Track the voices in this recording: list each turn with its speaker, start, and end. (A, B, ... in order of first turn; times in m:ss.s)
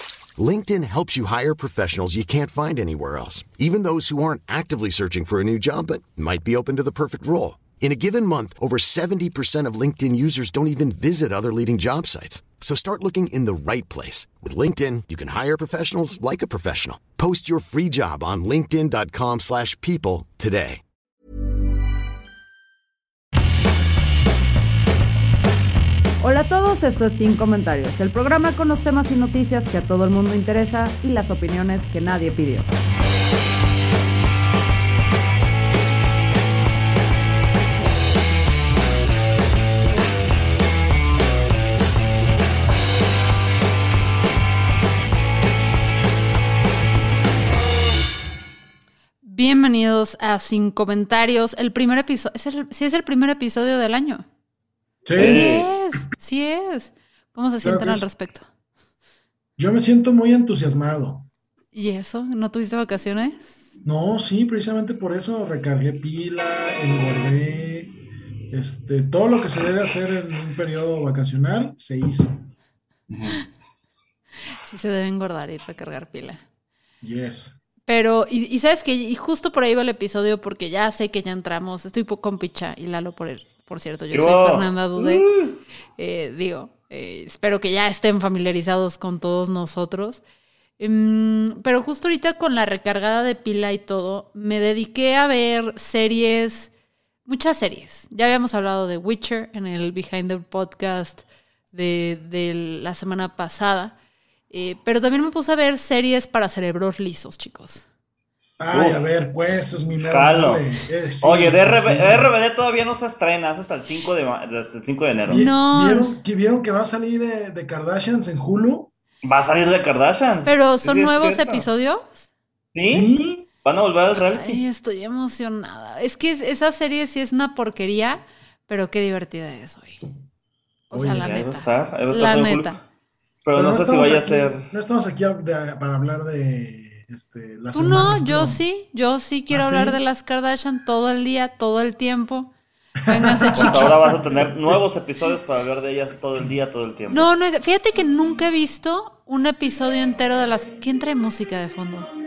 0:00.4-0:20.8 A
0:26.2-0:32.7 B
0:49.2-0:54.2 B
0:55.0-0:55.6 C
0:55.2-0:55.6 D
0:55.2-0:58.5 B
0:57.6-0:58.1 C
0:59.6-1:01.2 C
1:01.7-1:03.6 B
1:03.8-1:08.0 C
1:08.5-1:12.5 C
1:14.6-1:16.4 B
1:17.0-1:17.6 C
1:17.9-1:25.3 B
1:24.1-1:25.6 D
1:26.0-1:30.2 B
1:30.8-1:36.7 B
1:37.2-1:43.9 B
1:44.5-1:47.8 B
1:48.6-1:52.3 C
1:48.7-1:49.0 D
1:50.0-1:50.6 D
1:51.2-1:55.4 D
1:55.3-1:58.9 C
1:55.3-1:56.1 B
1:59.2-2:01.7 D
2:00.4-2:02.3 B
2:02.7-2:03.1 D
2:02.9-2:03.5 C
2:03.6-2:04.6 D
2:04.2-2:10.0 B
2:10.9-2:12.8 B
2:10.9-2:11.4 C
2:11.2-2:12.7 D
2:13.4-2:14.7 D
2:13.5-2:18.6 C
2:17.7-2:22.5 B
2:19.5-2:20.0 C
2:23.0-2:23.9 B
2:23.1-2:24.8 C
2:23.5-2:27.3 D
2:27.1-2:32.1 B